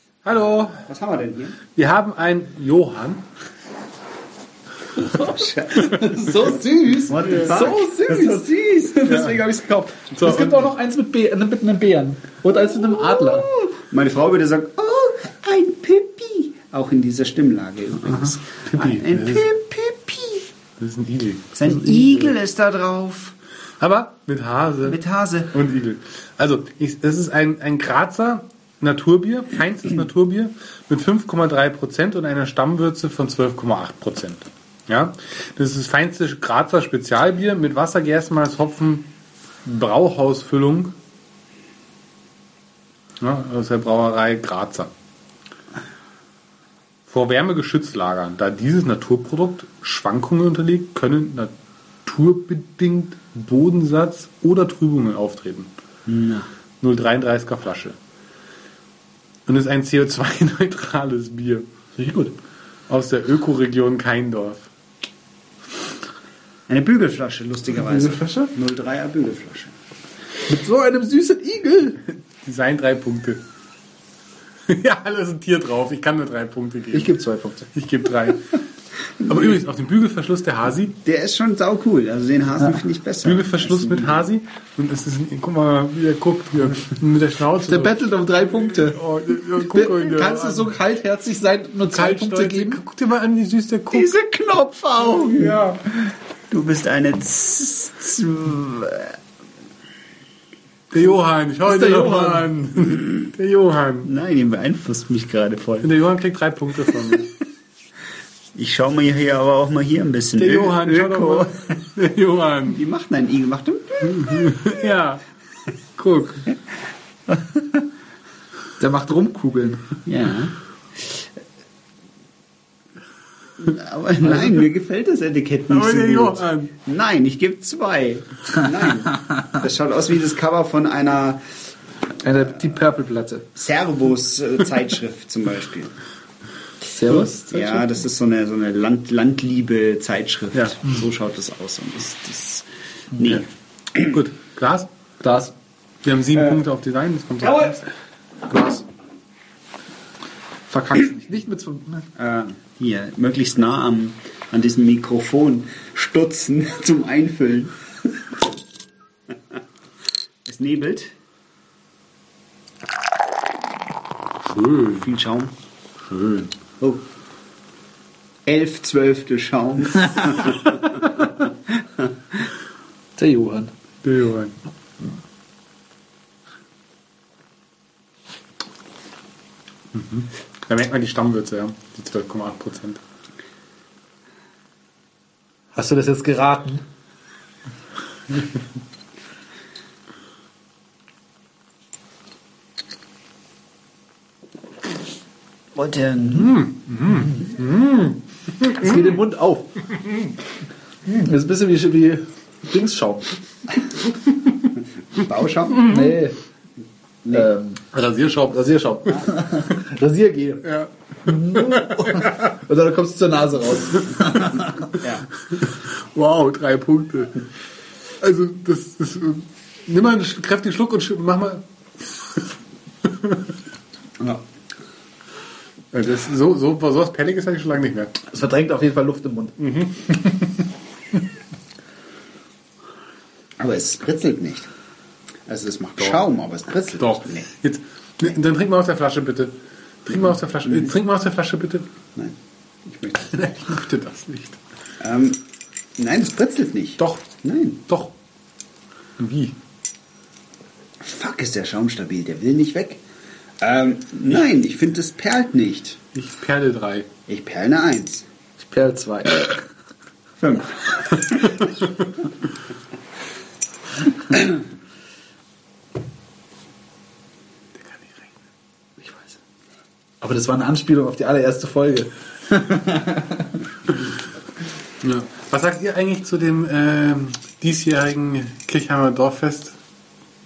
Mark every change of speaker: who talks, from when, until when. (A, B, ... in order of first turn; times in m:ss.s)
0:00.2-0:00.8 A
0:00.8-0:01.6 B
0:01.7-0:03.3 A
0:05.0-0:09.3 C
0:05.1-0:06.0 B
0:07.1-0:10.2 B
0:07.2-0:07.6 A
0:10.1-0:10.7 A
0:10.2-0:13.5 C
0:12.6-0:20.5 B
0:18.6-0:19.5 A
0:20.8-0:22.3 A
0:21.6-0:23.4 B
0:23.8-0:25.0 A
0:24.8-0:25.5 B
0:25.5-0:39.1 A
0:39.7-0:40.9 A
0:43.2-0:44.9 A
0:47.1-0:51.5 A
0:52.1-0:55.7 A
0:56.1-0:56.5 B
0:56.8-0:58.0 A
0:59.5-1:01.7 A
1:02.0-1:02.3 C
1:02.9-1:04.7 A
1:06.7-1:09.7 B
1:07.7-1:08.5 C
1:10.5-1:12.0 C
1:12.4-1:13.4 A
1:14.7-1:17.2 A
1:16.9-1:17.7 C
1:17.7-1:18.5 A
1:19.2-1:21.0 A
1:21.0-1:24.3 B
1:23.2-1:28.0 A
1:27.6-1:32.8 C
1:28.7-1:30.7 A
1:31.9-1:34.1 A
1:33.9-1:39.2 B
1:35.2-1:35.8 A
1:40.9-1:44.1 A
1:41.6-1:42.5 C
1:44.0-1:45.9 B
1:45.8-1:47.3 A
1:48.6-1:51.5 B
1:50.4-1:52.8 A
1:52.7-1:54.7 B
1:54.1-1:55.3 A
1:56.0-1:56.5 A
1:58.8-1:59.8 C
2:00.0-2:00.5 B
2:03.6-2:11.4 B
2:05.7-2:06.7 A
2:12.2-2:13.4 C
2:13.6-2:16.0 B
2:16.8-2:17.9 C
2:17.1-2:24.2 B
2:24.0-2:24.9 A
2:25.2-2:25.5 C
2:26.0-2:27.8 A
2:27.4-2:27.7 B
2:30.7-2:32.1 C
2:32.2-2:37.8 B
2:40.5-2:41.1 B
2:44.4-2:45.1 A
2:45.0-2:45.5 B
2:46.1-2:46.5 A
2:46.6-2:47.0 B
2:48.5-2:52.1 B
2:53.2-2:53.7 C
2:54.0-2:54.5 A
2:59.9-3:03.0 A
3:05.7-3:06.8 C
3:15.8-3:16.6 B
3:16.4-3:19.2 A
3:17.1-3:17.4 C
3:18.8-3:19.7 C
3:20.0-3:20.3 A
3:21.2-3:23.3 C
3:25.1-3:25.9 B
3:25.8-3:26.4 C
3:25.8-3:26.2 A
3:27.2-3:27.5 B
3:27.3-3:27.8 C
3:27.9-3:29.2 A
3:28.5-3:30.6 C
3:30.6-3:32.4 A
3:31.3-3:34.7 C
3:34.9-3:35.3 B
3:35.5-3:37.4 A
3:38.2-3:42.4 A
3:43.0-3:43.5 A
3:45.9-3:48.2 A
3:48.2-3:49.6 C
3:49.6-3:50.6 A
3:53.6-3:54.7 B
3:55.5-3:57.5 B
3:56.9-3:59.5 A
4:00.1-4:01.9 A
4:00.6-4:00.9 B
4:02.2-4:03.3 B
4:03.2-4:04.6 A
4:05.0-4:05.4 B
4:06.0-4:07.8 B
4:07.0-4:07.2 A
4:07.9-4:08.1 A
4:09.2-4:09.6 A
4:11.0-4:13.0 B
4:13.6-4:16.0 B
4:16.1-4:17.1 A
4:17.3-4:18.3 B
4:18.6-4:19.6 C
4:20.4-4:21.7 B
4:27.8-4:28.3 A
4:30.2-4:33.6 C
4:35.0-4:39.8 A